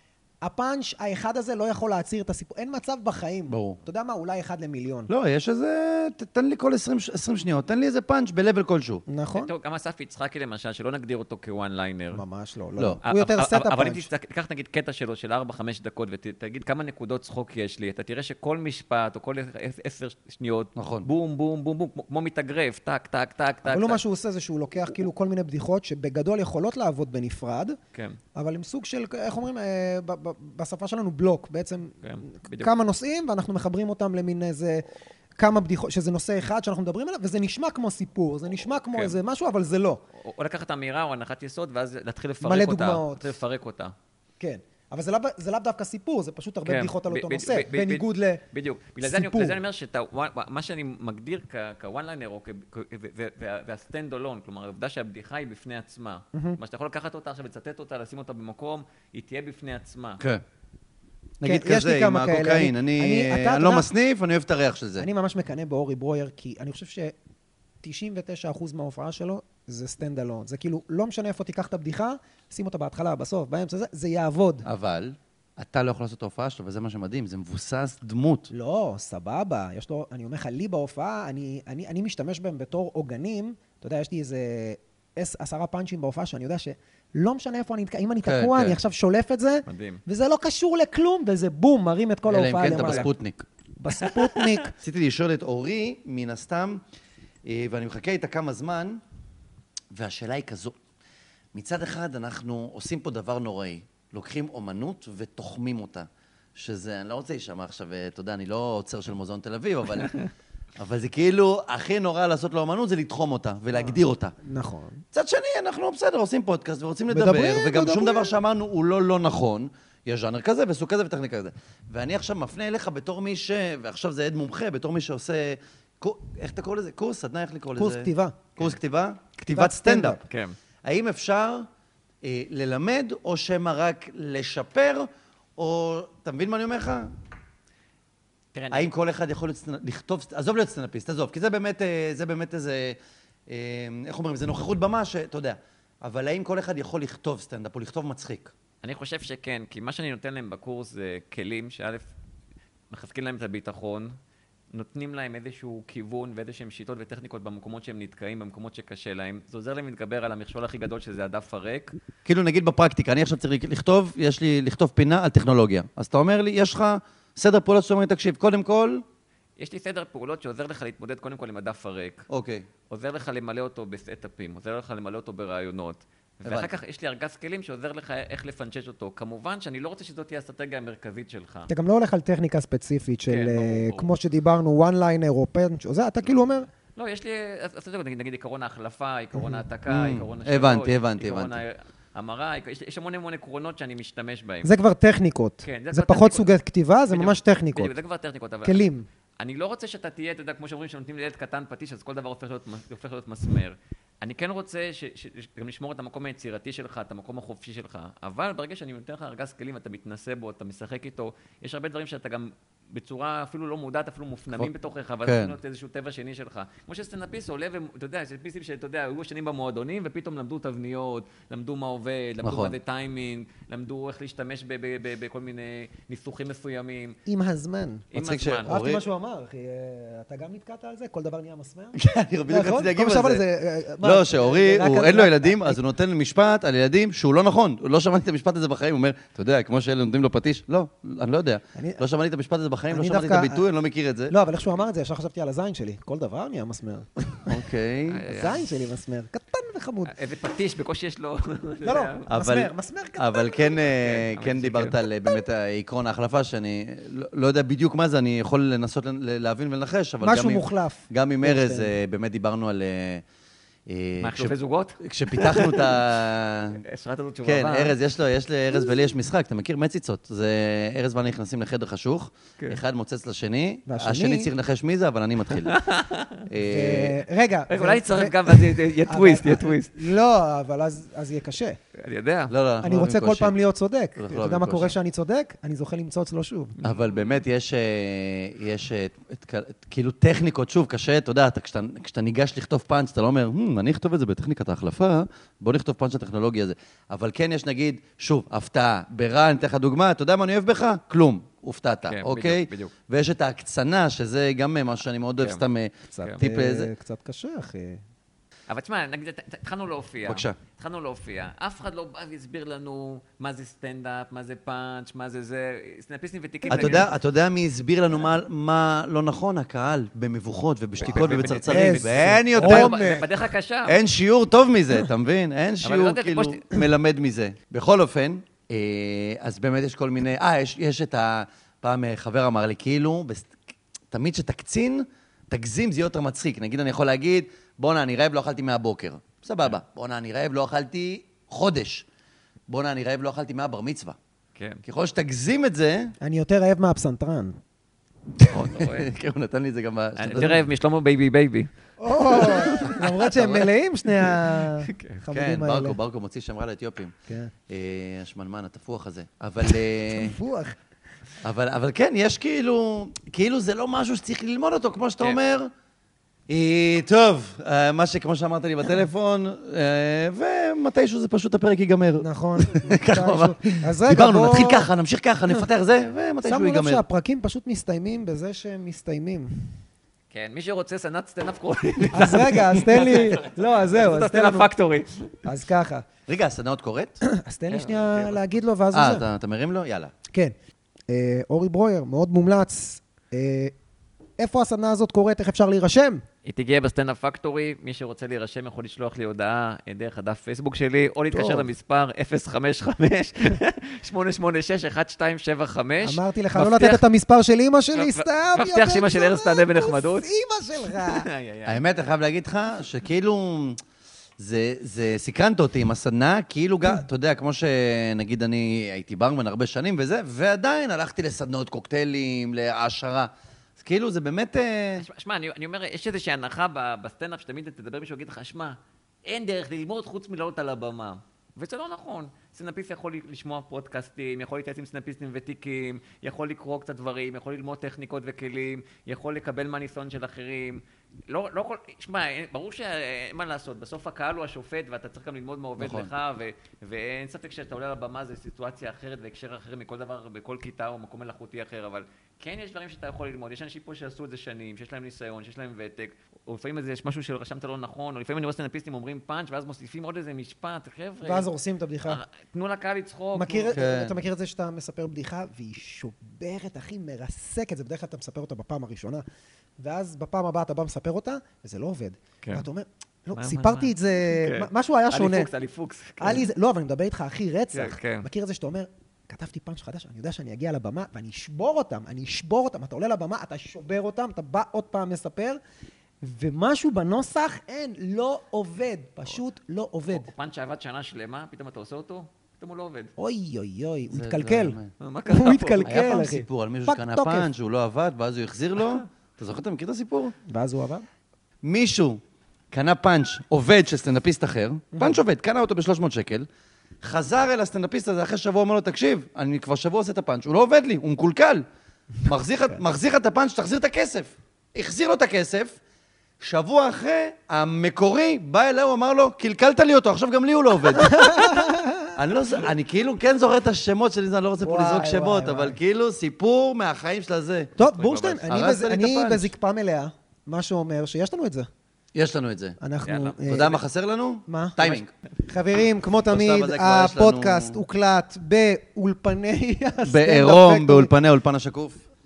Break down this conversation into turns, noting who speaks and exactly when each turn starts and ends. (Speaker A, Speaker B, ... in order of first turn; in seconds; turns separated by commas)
Speaker A: 0.4-5.1, Speaker B: 3.5-3.8, Speaker B: 5.1-9.0, Speaker A: 9.1-9.5, Speaker C: 9.3-12.2, Speaker A: 12.1-14.1, Speaker C: 13.0-24.0, Speaker B: 20.8-21.1, Speaker A: 23.6-27.8, Speaker A: 28.3-40.0, Speaker C: 32.0-32.7, Speaker C: 40.2-43.9, Speaker A: 42.4-43.3, Speaker A: 44.4-48.4, Speaker C: 46.6-60.2, Speaker A: 49.0-49.6, Speaker B: 61.4-65.1, Speaker A: 61.4-63.9, Speaker A: 65.0-67.1, Speaker A: 67.8-74.7, Speaker B: 74.6-78.5, Speaker A: 78.5-93.1, Speaker B: 88.2-88.8, Speaker C: 89.7-90.0, Speaker B: 92.3-93.4, Speaker C: 92.6-93.1, Speaker A: 93.8-94.7, Speaker C: 94.0-94.7, Speaker B: 94.8-96.8, Speaker B: 97.4-99.0, Speaker B: 99.9-100.7, Speaker B: 101.5-110.2, Speaker B: 110.8-114.3, Speaker A: 113.8-115.0, Speaker B: 115.1-130.2, Speaker A: 117.1-118.3, Speaker A: 127.8-128.4, Speaker A: 129.5-130.2, Speaker C: 130.2-130.5, Speaker B: 130.8-131.7, Speaker B: 132.2-137.1, Speaker C: 138.5-138.9, Speaker B: 138.7-148.5, Speaker C: 148.8-152.1, Speaker C: 152.9-154.1, Speaker C: 154.7-161.9, Speaker B: 162.2-169.0, Speaker C: 169.6-172.3, Speaker B: 172.3-172.7, Speaker C: 172.9-181.7, Speaker A: 181.7-186.7, Speaker C: 183.3-184.1, Speaker C: 186.9-194.7, Speaker A: 189.3-189.6, Speaker B: 189.9-191.6, Speaker A: 194.6-197.9, Speaker C: 195.6-196.5, Speaker C: 197.1-198.8, Speaker A: 198.6-199.1, Speaker C: 199.4-227.2, Speaker B: 215.2-215.6, Speaker B: 222.4-222.7, Speaker A: 227.3-228.1, Speaker C: 228.1-228.8, Speaker B: 228.1-229.1, Speaker A: 228.7-235.8, Speaker B: 231.9-233.4, Speaker B: 234.0-244.3, Speaker A: 241.8-242.0, Speaker A: 242.9-243.6, Speaker A: 244.3-247.5, Speaker B: 247.5-248.2, Speaker C: 248.1-248.6, Speaker A: 248.2-250.1, Speaker C: 250.1-252.2, Speaker A: 251.8-253.8, Speaker B: 252.3-263.2, Speaker C: 254.0-255.0, Speaker A: 260.2-261.9, Speaker B: 263.9-266.8, Speaker C: 264.2-265.9, Speaker C: 266.8-267.9, Speaker B: 267.4-275.8, Speaker A: 273.9-274.5, Speaker C: 275.6-276.4, Speaker B: 276.5-277.2, Speaker A: 276.6-281.8, Speaker C: 277.7-279.9, Speaker C: 282.0-282.5, Speaker B: 282.5-283.5, Speaker A: 282.8-286.7, Speaker B: 284.2-284.9, Speaker B: 286.8-306.9, Speaker C: 302.1-302.9, Speaker A: 306.1-308.0, Speaker C: 308.7-317.1, Speaker B: 310.3-310.5, Speaker A: 316.7-317.0, Speaker B: 316.7-323.1, Speaker C: 321.0-324.0, Speaker A: 321.2-323.3, Speaker B: 323.9-333.5, Speaker C: 325.8-326.6, Speaker B: 334.1-342.1, Speaker B: 342.7-344.2, Speaker C: 344.5-344.8, Speaker B: 344.8-346.1, Speaker A: 346.2-347.6, Speaker B: 348.4-350.6, Speaker C: 348.5-349.1, Speaker C: 350.1-351.7, Speaker A: 352.0-356.0, Speaker C: 352.3-353.7, Speaker B: 352.4-353.6, Speaker C: 354.7-355.2, Speaker B: 355.3-357.1, Speaker B: 357.7-360.4, Speaker A: 360.1-360.8, Speaker B: 361.4-365.7, Speaker B: 366.5-377.0, Speaker A: 372.2-374.9, Speaker A: 376.4-379.7, Speaker C: 380.3-385.3, Speaker A: 382.1-384.7, Speaker A: 385.4-386.1, Speaker B: 386.3-387.2, Speaker A: 387.2-389.2, Speaker C: 387.7-388.4, Speaker B: 388.9-390.1, Speaker A: 391.1-393.7, Speaker A: 394.4-396.2, Speaker C: 396.4-407.0, Speaker B: 401.3-401.7, Speaker A: 406.0-411.3, Speaker C: 407.9-410.3, Speaker C: 410.8-411.8, Speaker B: 411.6-413.8, Speaker B: 414.4-425.0, Speaker C: 425.0-461.5, Speaker B: 445.8-446.1, Speaker A: 461.2-462.2, Speaker C: 462.1-463.8, Speaker A: 463.4-469.2, Speaker B: 463.7-464.1, Speaker A: 469.8-475.5, Speaker C: 473.3-476.5, Speaker A: 476.2-485.6, Speaker C: 477.7-478.2, Speaker A: 486.2-490.3, Speaker C: 490.1-493.1, Speaker A: 493.2-494.8, Speaker B: 494.1-494.9, Speaker C: 495.0-495.9, Speaker A: 495.3-497.5, Speaker B: 495.8-500.3, Speaker A: 500.5-501.0, Speaker B: 501.6-502.2, Speaker B: 502.7-506.4, Speaker A: 504.9-505.2, Speaker B: 507.0-511.6, Speaker B: 512.2-515.8, Speaker B: 516.4-527.7, Speaker A: 520.9-522.2, Speaker A: 524.6-525.8, Speaker C: 527.8-528.5, Speaker A: 527.8-531.7, Speaker B: 528.4-529.5, Speaker B: 532.1-532.8, Speaker A: 532.8-533.8, Speaker C: 533.0-533.4, Speaker B: 533.4-535.1, Speaker A: 534.5-541.1, Speaker B: 536.3-537.8, Speaker B: 540.0-542.0